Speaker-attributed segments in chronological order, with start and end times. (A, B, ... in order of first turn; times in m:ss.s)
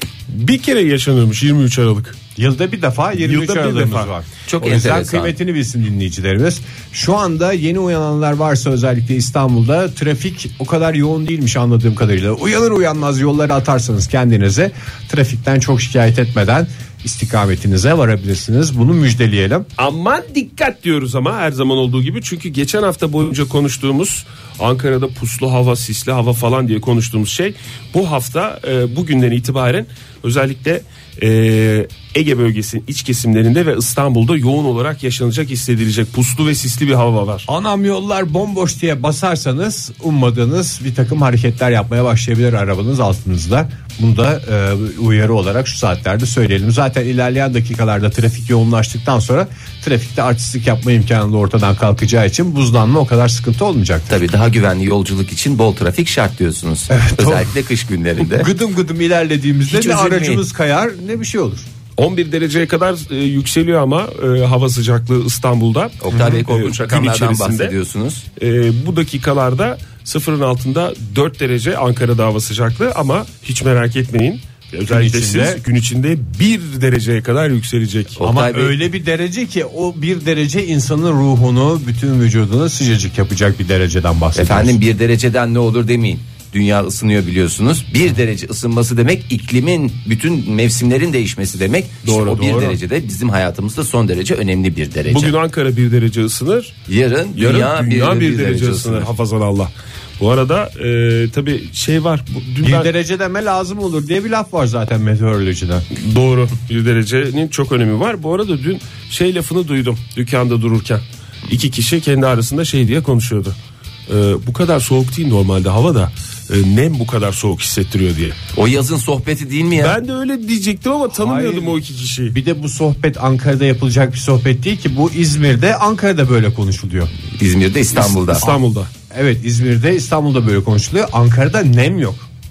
0:00.3-0:02.2 A
0:02.4-0:19.7 B
0:03.2-0:04.1 A
0:04.5-0:05.4 C
0:19.8-0:37.5 A
0:37.5-0:54.3 B
0:54.1-0:58.5 C
0:56.9-0:57.5 B
0:58.4-1:01.7 B
0:59.7-1:00.4 C
1:02.0-1:07.7 A
1:06.0-1:08.2 C
1:06.1-1:06.4 B
1:08.4-1:18.2 A
1:14.9-1:15.6 B
1:18.2-1:18.8 C
1:18.2-1:24.8 B
1:24.4-1:35.4 C
1:32.0-1:32.8 A
1:35.1-1:36.7 A
1:36.9-1:39.1 C
1:37.4-1:42.9 A
1:42.6-1:45.9 B
1:46.0-1:53.6 A
1:54.1-1:58.4 A
1:58.5-2:00.0 C
1:59.8-2:02.4 A
2:01.1-2:01.8 B
2:02.3-2:07.1 B
2:07.4-2:08.4 C
2:08.0-2:08.9 A
2:08.4-2:12.3 B